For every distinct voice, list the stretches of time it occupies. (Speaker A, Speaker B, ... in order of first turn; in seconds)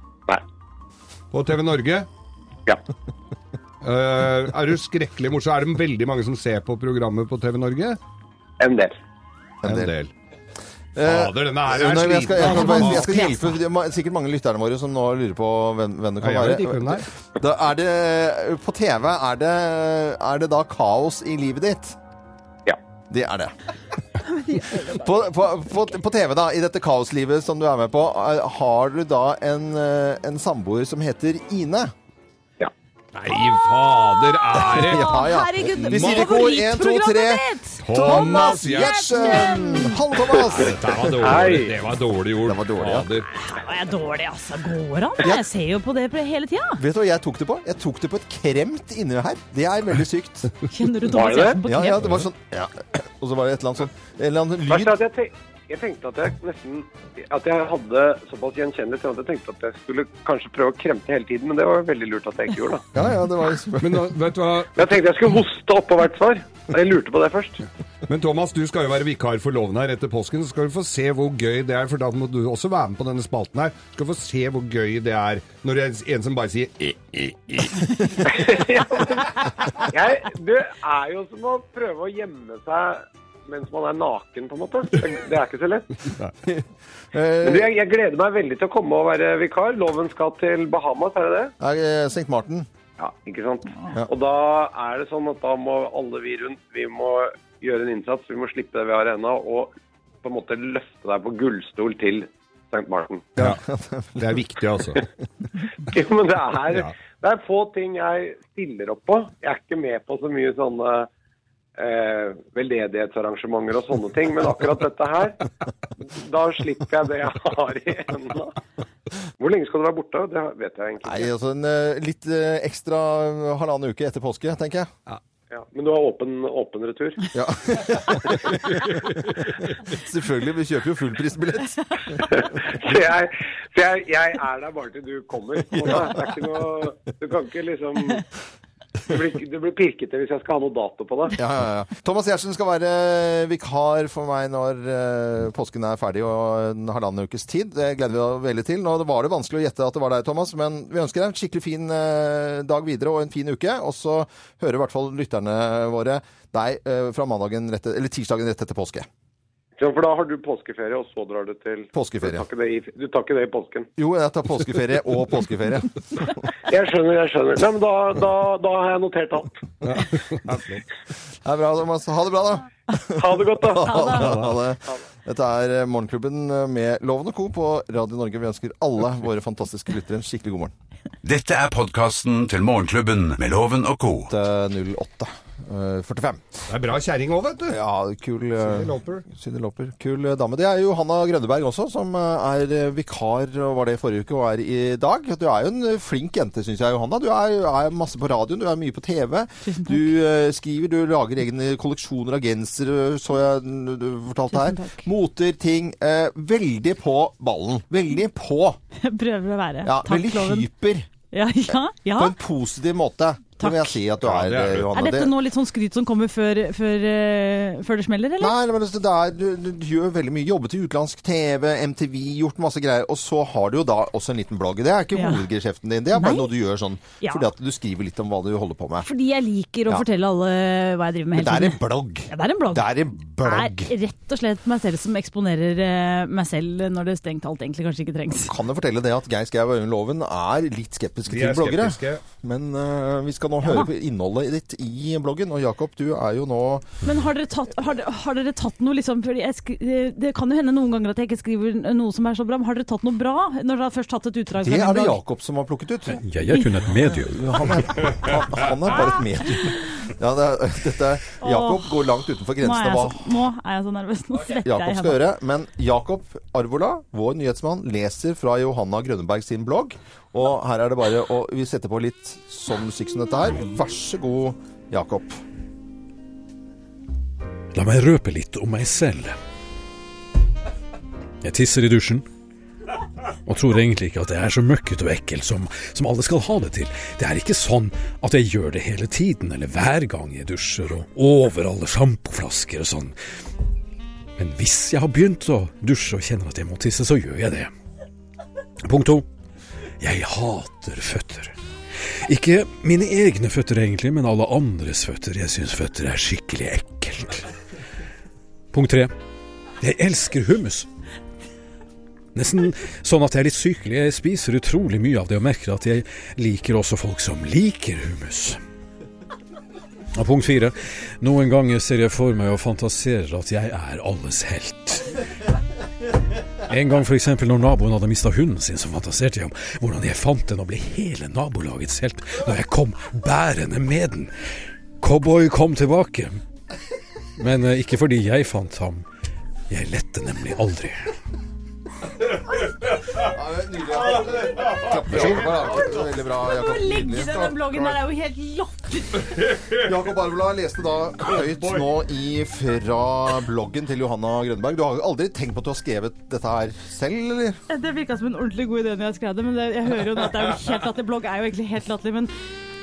Speaker A: 1.3-2.1, 3.8-8.0, 9.6-10.1, 11.0-13.1, 16.2-17.1, 33.1-35.0, 35.8-36.3, 37.8-39.3, 40.5-43.3, 63.8-64.9, 68.1-78.2, 104.2-105.0, 169.8-170.8, 174.2-174.6, 186.7-187.8, 188.6-189.2, 214.2-214.9, 241.3-242.2, 343.9-346.1, 349.2-349.9, 351.3-351.9
Speaker B: 8.6-8.9, 41.2-41.7, 51.1-51.6, 54.7-62.9, 64.8-67.6, 78.2-86.1, 87.4-91.5, 93.0-99.7, 100.2-103.3, 105.8-111.1, 111.8-115.5, 116.0-118.6, 119.4-121.3, 125.5-127.3, 132.2-138.2, 139.1-141.4, 159.8-163.9, 166.7-169.6, 173.2-174.1
Speaker C: 9.6-9.9, 11.0-22.0, 23.1-23.5, 24.7-31.9, 34.6-41.2, 42.4-43.1, 46.8-50.5, 51.6-55.0, 63.0-64.1, 86.5-87.7, 91.6-92.7, 103.4-104.4, 121.0-124.9, 127.3-128.9, 129.8-132.2, 141.4-159.1, 161.9-162.5, 164.0-166.4, 171.4-180.7, 184.3-186.6, 187.7-208.8, 209.8-211.1, 212.1-215.3, 218.4-229.1, 231.3-233.9, 238.5-247.0, 254.6-256.2, 257.3-263.4, 264.6-275.4, 343.1-347.6, 349.7-357.6
Speaker D: 12.4-13.5, 24.3-25.0, 34.5-40.0, 43.4-46.8, 50.7-52.2, 173.8-174.3, 199.6-200.1, 204.5-205.1, 209.0-210.7, 211.3-212.3, 213.6-213.9, 214.9-218.5, 225.1-225.4, 226.1-226.5, 227.2-227.5, 229.0-238.5, 243.6-243.9, 247.0-255.2, 261.4-261.9, 262.6-265.2, 346.4-349.3, 357.7-362.3
Speaker E: 181.2-184.3
Speaker F: 256.2-257.6, 277.7-279.3, 281.4-282.2, 283.5-293.2, 294.4-297.7, 298.9-299.2, 300.0-301.5, 302.2-307.5, 308.7-309.1, 309.8-310.9, 312.3-318.6, 320.1-325.1, 326.7-334.3, 335.0-336.4, 337.4-339.0, 339.7-341.1